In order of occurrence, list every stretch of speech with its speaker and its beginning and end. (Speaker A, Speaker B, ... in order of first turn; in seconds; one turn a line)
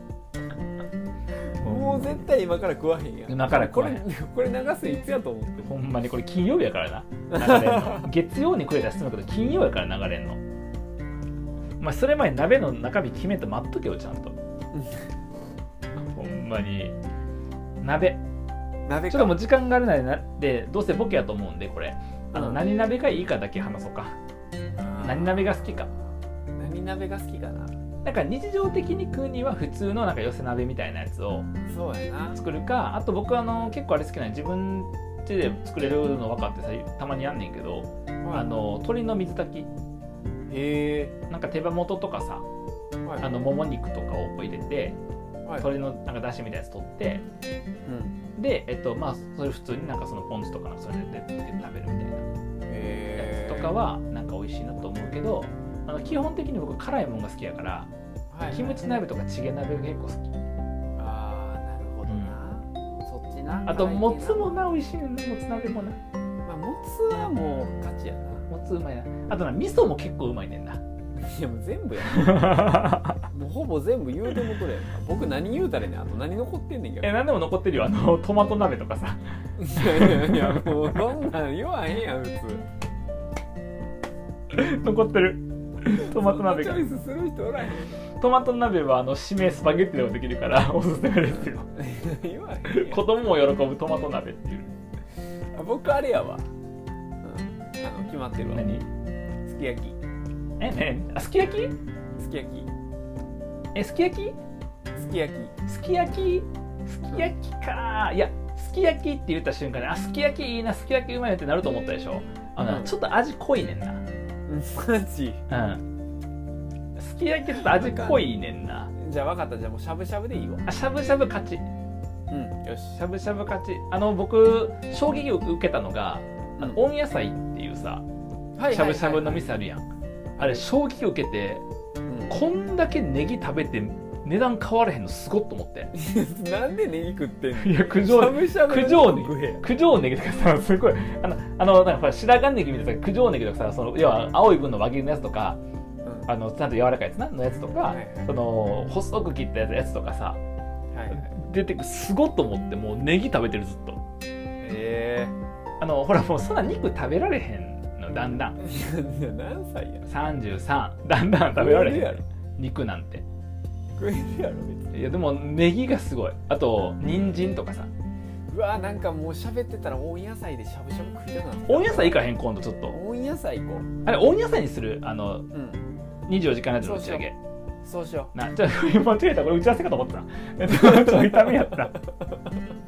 Speaker A: 1.6-2.2
Speaker B: 1.6-5.7
Speaker A: 3.3-4.0
Speaker A: 5.6-10.4
Speaker B: 7.3-8.1
Speaker A: 11.8-14.4
Speaker B: 14.7-15.1
Speaker A: 16.1-16.9
Speaker A: 17.8-18.2
Speaker B: 18.9-19.4
Speaker A: 19.1-24.1
Speaker B: 22.3-22.6
Speaker B: 24.8-25.6
Speaker A: 25.0-25.9
Speaker B: 26.6-27.7
Speaker A: 28.0-31.5
Speaker B: 31.7-32.4
Speaker A: 32.3-39.7
Speaker B: 38.2-38.7
Speaker B: 40.5-41.1
Speaker A: 41.3-42.5
Speaker A: 43.2-45.0
Speaker A: 45.6-47.2
Speaker B: 47.9-48.2
Speaker A: 48.4-52.2
Speaker B: 52.7-53.8
Speaker A: 53.2-57.9
Speaker B: 58.3-59.0
Speaker A: 58.5-60.3
Speaker B: 61.0-64.5
Speaker A: 62.1-62.4
Speaker A: 63.7-66.0
Speaker B: 66.5-68.5
Speaker A: 68.5-70.8
Speaker B: 71.2-77.2
Speaker A: 72.1-73.2
Speaker A: 77.0-79.2
Speaker B: 79.6-82.6
Speaker A: 79.8-80.9
Speaker A: 84.5-86.8
Speaker B: 85.9-88.0
Speaker A: 88.2-91.7
Speaker B: 91.4-93.0
Speaker A: 92.7-94.8
Speaker B: 95.5-96.5
Speaker B: 97.2-98.7
Speaker A: 98.5-98.8
Speaker B: 99.5-100.0
Speaker A: 100.6-101.8
Speaker B: 102.2-102.7
Speaker A: 103.8-104.4
Speaker B: 105.0-105.6
Speaker A: 105.7-114.0
Speaker B: 112.6-112.9
Speaker B: 114.5-115.4
Speaker A: 115.5-115.8
Speaker A: 117.0-118.9
Speaker B: 117.5-118.3
Speaker B: 119.0-120.7
Speaker A: 120.7-121.7
Speaker B: 122.3-123.0
Speaker A: 123.0-128.0
Speaker B: 128.6-129.5
Speaker A: 128.7-129.8
Speaker B: 130.4-130.6
Speaker A: 130.4-131.6
Speaker B: 132.1-132.4
Speaker A: 132.3-135.9
Speaker B: 135.9-139.7
Speaker A: 137.5-145.6
Speaker B: 146.0-146.3
Speaker A: 146.3-150.4
Speaker B: 147.8-148.3
Speaker B: 150.9-151.3
Speaker A: 151.1-154.0
Speaker B: 154.6-155.4
Speaker A: 155.8-158.6
Speaker B: 158.6-160.1
Speaker A: 160.1-163.2
Speaker B: 161.6-162.2
Speaker B: 164.0-164.9
Speaker A: 164.9-167.9
Speaker B: 168.5-172.2
Speaker A: 171.7-173.0
Speaker B: 172.9-173.9
Speaker A: 174.0-175.5
Speaker B: 175.5-175.8
Speaker A: 176.3-177.4
Speaker B: 176.8-177.3
Speaker B: 177.8-178.3
Speaker A: 178.3-181.9
Speaker B: 180.7-182.5